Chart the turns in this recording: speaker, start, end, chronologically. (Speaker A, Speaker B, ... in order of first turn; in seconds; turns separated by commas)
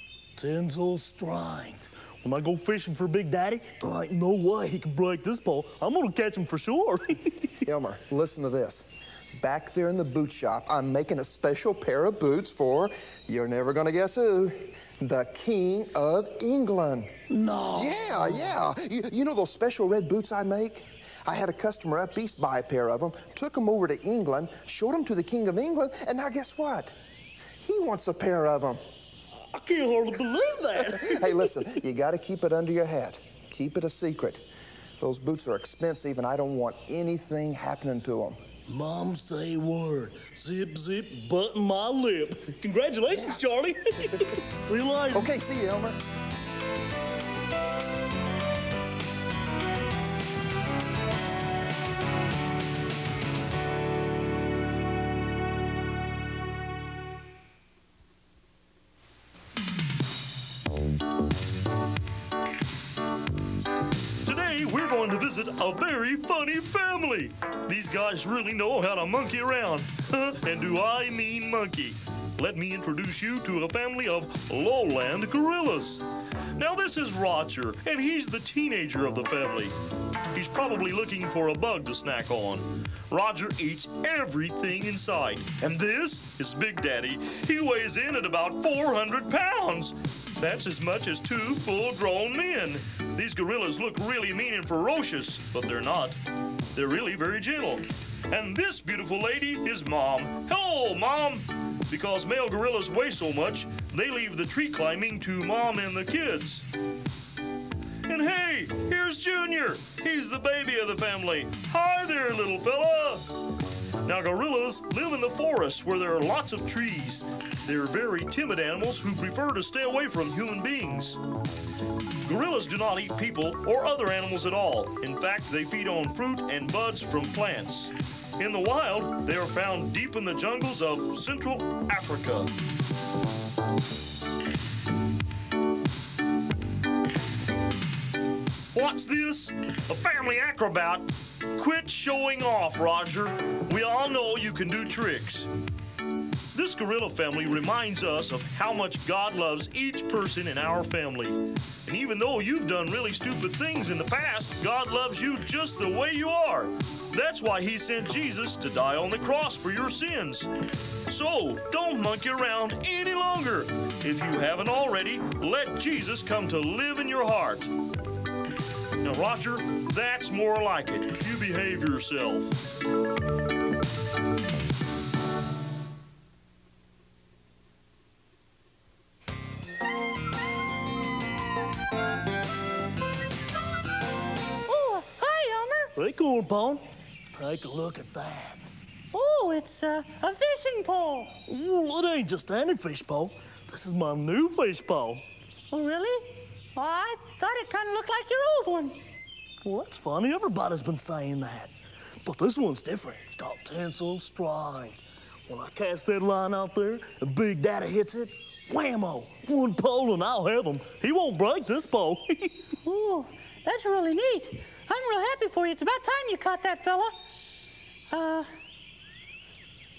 Speaker A: 0.4-7.4, Speaker B: 7.6-17.1, Speaker A: 17.3-18.6, Speaker B: 17.7-26.9, Speaker B: 27.6-28.8, Speaker A: 29.3-31.6, Speaker B: 30.8-34.5, Speaker B: 35.0-38.4, Speaker A: 38.7-45.3, Speaker B: 45.1-46.0, Speaker C: 64.2-76.0, Speaker C: 76.5-79.8, Speaker C: 80.3-96.2, Speaker C: 96.7-106.7, Speaker C: 108.1-113.3, Speaker C: 114.0-121.2, Speaker C: 122.2-132.5, Speaker C: 138.7-145.5, Speaker C: 146.5-160.5, Speaker C: 161.1-167.7, Speaker C: 169.0-172.6, Speaker D: 184.7-185.9, Speaker A: 186.0-188.6, Speaker D: 189.1-191.3, Speaker A: 191.5-195.2, Speaker D: 195.7-199.0, Speaker A: 199.6-201.7, Speaker A: 202.2-212.6, Speaker D: 212.8-217.1, Speaker D: 218.1-218.5